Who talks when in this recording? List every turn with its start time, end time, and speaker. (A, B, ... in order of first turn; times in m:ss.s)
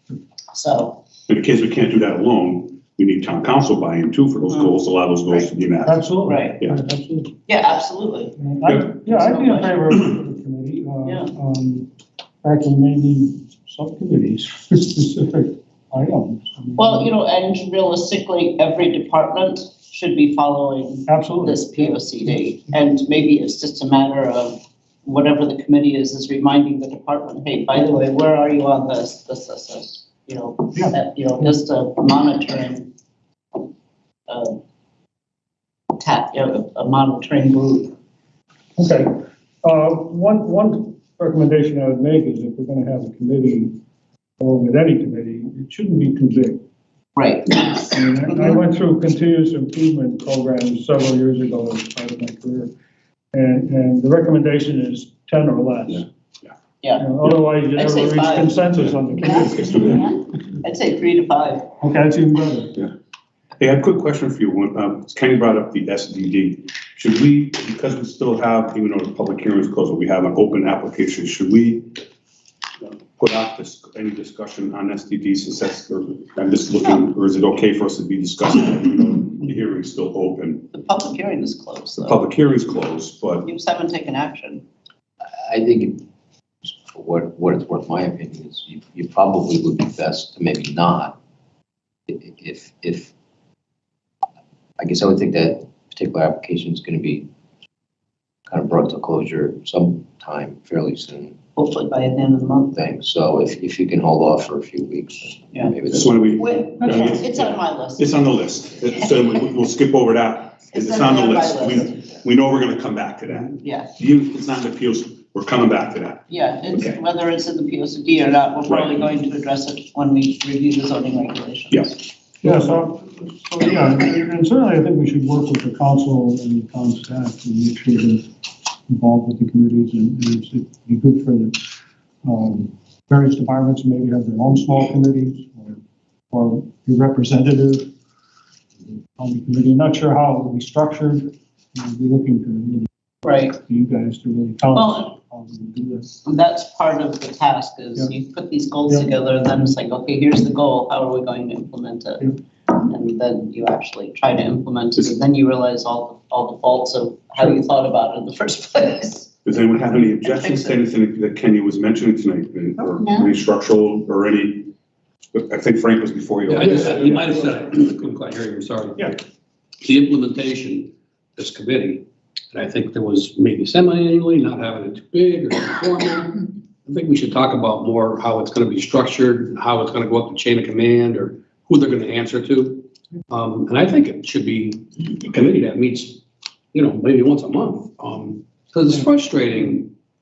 0:00.5-0:01.0 A
0:01.3-0:06.0 B
0:04.5-0:04.7 A
0:05.8-0:07.3 C
0:06.2-0:06.6 A
0:07.5-0:08.4 A
0:08.5-0:11.9 C
0:08.7-0:08.9 B
0:09.0-0:09.9 A
0:12.4-0:17.1 C
0:16.8-0:32.9 A
0:21.1-0:21.9 C
0:34.3-0:34.6 A
0:35.9-0:37.9 A
0:38.8-0:39.1 C
0:39.6-0:43.7 C
0:44.4-0:46.6 C
0:47.2-0:48.6 A
0:48.0-0:52.7 C
0:53.3-0:56.0 C
0:56.8-0:57.1 A
0:57.0-1:00.1 C
0:57.7-0:58.6 A
0:59.4-1:00.1 B
1:00.6-1:01.7 A
1:01.8-1:02.7 C
1:03.6-1:12.0 B
1:12.8-1:20.7 B
1:20.7-1:22.2 A
1:22.0-1:23.4 B
1:23.4-1:24.6 A
1:25.5-1:26.0 D
1:26.6-1:31.2 D
1:32.1-1:33.1 D
1:34.8-1:37.3 D
1:38.5-1:41.4 D
1:41.6-1:42.8 A
1:42.7-1:46.2 D
1:45.9-1:57.0 B
1:46.3-1:48.2 A
1:50.7-1:52.2 A
1:53.6-1:53.9 A
1:56.3-2:02.0 A
1:58.6-1:59.0 B
2:01.7-2:02.6 B
2:02.4-2:08.2 C
2:08.9-2:11.6 C
2:12.2-2:15.8 C
2:16.3-2:17.8 C
2:19.2-2:22.8 C
2:23.2-2:23.6 A
2:23.7-2:26.2 C
2:24.7-2:25.1 A
2:26.2-2:39.4 A
2:39.4-2:44.7 B
2:40.2-2:40.8 A
2:45.3-2:47.8 B
2:46.5-2:49.2 E
2:49.8-3:06.2 E
3:06.7-3:09.9 E